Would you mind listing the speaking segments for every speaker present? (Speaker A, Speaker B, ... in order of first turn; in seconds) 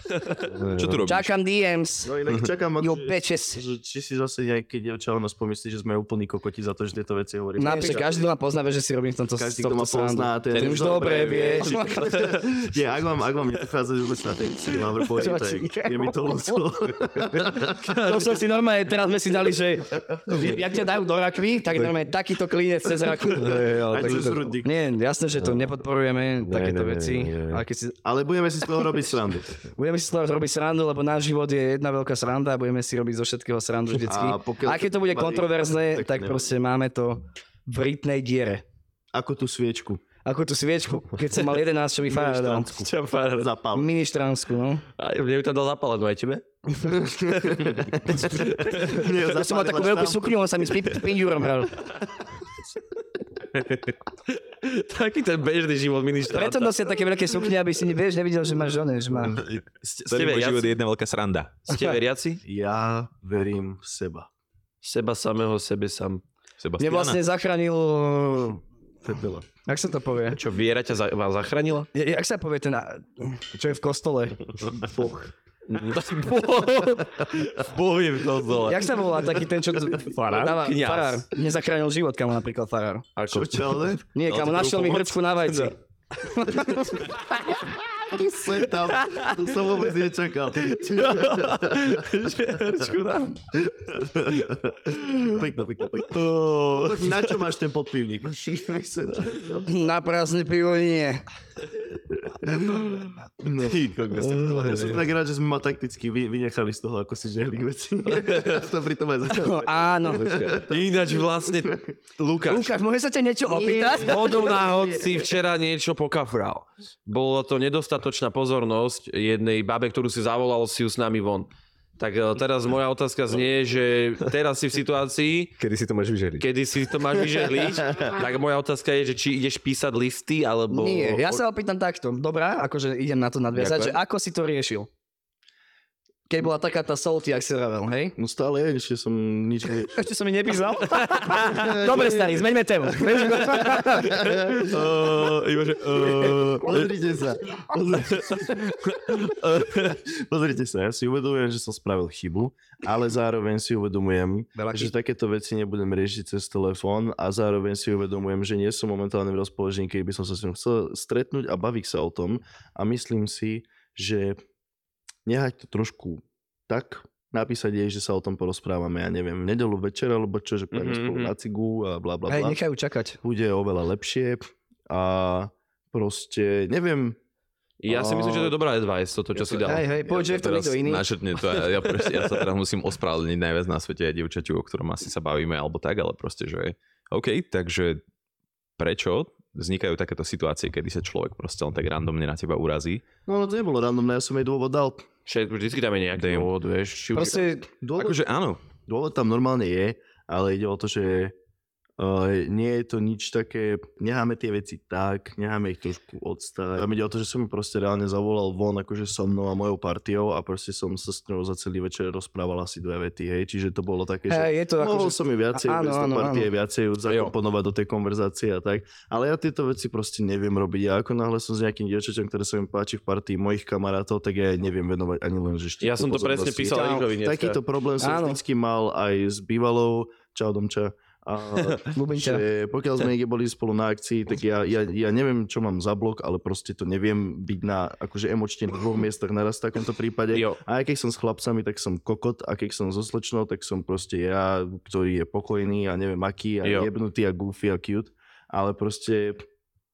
Speaker A: 0.5-1.1, 23.2-24.6, 25.4-25.7, 26.4-27.6, 110.1-110.6, 125.6-126.5
Speaker B: 0.8-1.3, 60.0-61.7, 66.6-67.2, 180.1-188.0, 188.8-193.0, 196.2-196.5, 198.0-198.6
Speaker C: 1.1-2.2, 2.8-3.6, 7.6-12.3, 15.2-16.6, 17.8-28.0, 29.7-38.6, 40.2-42.7, 43.7-44.8, 49.1-51.9, 56.3-59.4, 66.8-68.6, 69.7-70.4, 71.9-74.4, 78.7-83.1, 84.1-87.1, 99.6-101.2, 109.3-110.3, 112.5-114.3, 130.7-134.9, 136.3-138.2, 139.9-144.2, 154.6-154.9, 172.3-173.2, 179.6-181.1, 197.1-197.7, 214.3-216.5, 226.7-227.1, 228.0-228.4, 231.9-232.5
Speaker D: 2.0-8.2, 9.4-17.9, 23.9-24.7, 28.0-29.6, 34.0-36.5, 39.1-40.0, 42.1-43.9, 47.0-50.4, 62.4-64.3, 69.1-69.4, 74.9-75.3, 83.3-84.1, 88.1-92.8, 93.5-99.7, 102.1-102.8, 103.4-111.8, 113.5-115.2, 127.8-128.1, 138.2-140.0, 141.5-142.3, 143.5-164.4, 165.3-172.6, 173.2-177.2, 177.9-178.5, 193.3-195.1, 197.8-201.3, 202.0-249.4
Speaker E: 10.5-12.6, 42.8-43.5, 45.0-46.4, 47.4-49.1, 53.5-57.0, 59.8-60.7, 61.7-62.4, 64.8-66.2, 70.3-71.9, 75.7-79.0, 79.9-81.2, 83.2-85.1, 88.8-89.8, 90.6-93.4, 96.1-97.4, 103.6-105.0, 108.1-108.6, 110.7-112.8, 114.0-125.5, 126.4-131.4, 133.6-134.0, 141.1-141.5, 143.3-146.9, 148.0-149.8, 170.7-171.3, 177.8-179.8, 195.3-197.5, 217.1-217.3, 225.8-227.6, 240.3-240.6, 246.6-246.9